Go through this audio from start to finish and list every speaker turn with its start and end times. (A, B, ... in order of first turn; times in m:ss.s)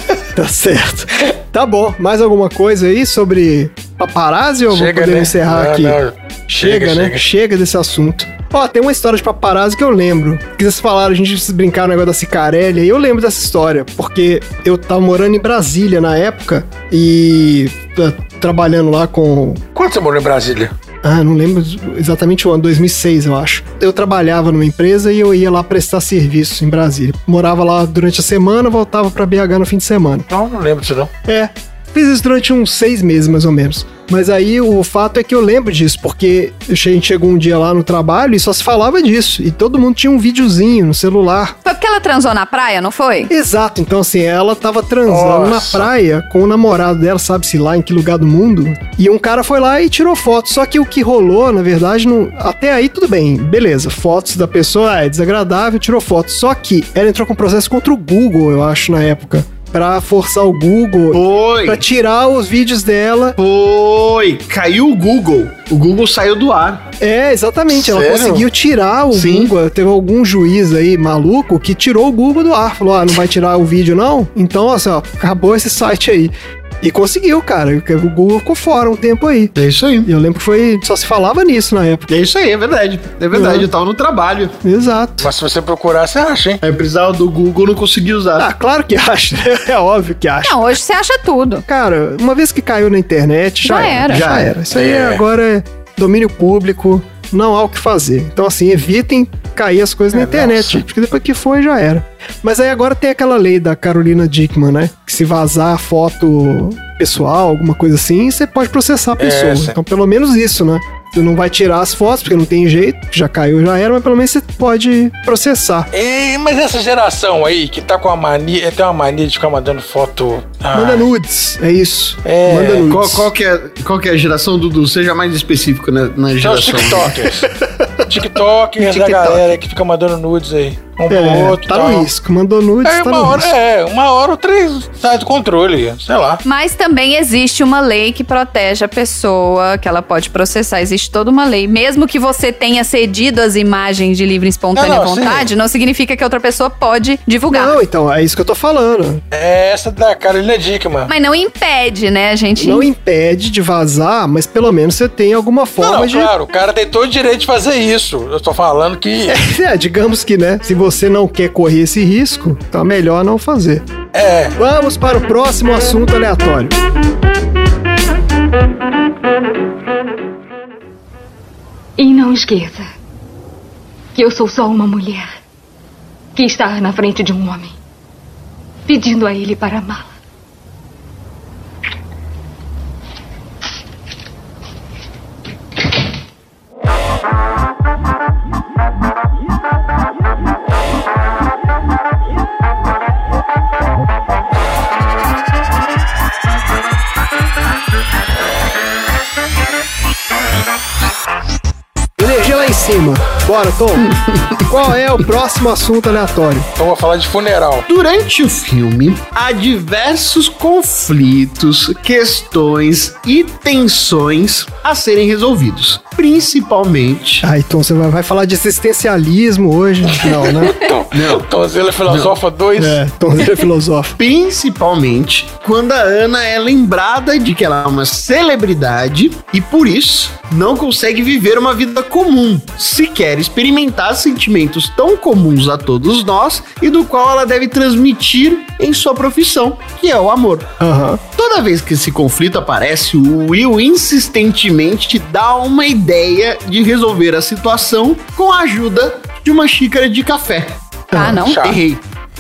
0:00.3-0:06.0 A
0:04.7-0:07.2 B
0:06.5-0:19.6 A
0:19.8-0:20.7 B
0:21.0-0:30.3 A
0:30.3-0:31.1 B
0:31.3-0:41.6 A
0:41.6-0:43.3 C
0:43.3-1:03.4 A
0:45.1-0:45.9 B
1:01.1-1:01.8 D
1:03.4-1:06.9 D
1:07.0-1:22.1 A
1:07.8-1:08.4 D
1:07.9-1:08.4 B
1:09.1-1:09.5 D
1:19.6-1:20.1 D
1:22.1-1:24.6 D
1:23.3-1:23.7 A
1:24.6-1:25.3 A
1:25.2-1:26.6 B
1:26.6-1:28.5 D
1:28.4-1:30.8 A
1:30.4-1:31.6 C
1:31.7-1:55.9 A
1:33.6-1:34.2 C
1:34.1-1:34.5 D
1:34.7-1:35.2 B
1:40.1-1:40.8 B
1:49.2-1:49.8 B
1:55.9-2:01.1 B
2:00.7-2:03.3 A
2:02.2-2:03.0 B
2:02.9-2:07.3 D
2:06.4-2:07.5 B
2:07.4-2:08.2 A
2:08.1-2:12.1 B
2:08.8-2:09.4 A
2:11.1-2:13.5 A
2:12.8-2:16.4 B
2:16.4-2:27.8 C
2:24.8-2:25.5 B
2:27.5-2:29.2 A
2:29.3-2:31.1 B
2:31.1-2:32.9 C
2:32.6-2:36.3 A
2:35.8-2:39.4 B
2:39.3-2:43.9 A
2:44.1-2:44.6 B
2:44.6-2:46.8 A
2:52.0-2:52.9 E
2:54.2-2:55.3 E
2:56.4-2:57.8 E
2:58.9-3:00.2 E
3:22.2-3:26.7 A
3:24.0-3:24.6 D
3:26.8-3:27.9 B
3:27.9-3:37.4 D
3:37.4-3:40.8 A
3:40.2-3:43.0 B
3:41.1-3:41.5 D
3:42.1-3:42.4 D
3:42.8-3:44.2 A
3:44.2-4:00.7 D
4:00.8-4:01.2 A
4:01.3-4:10.8 D
4:11.1-4:11.4 A
4:11.1-4:11.6 C
4:11.4-4:11.8 B
4:11.6-4:12.0 D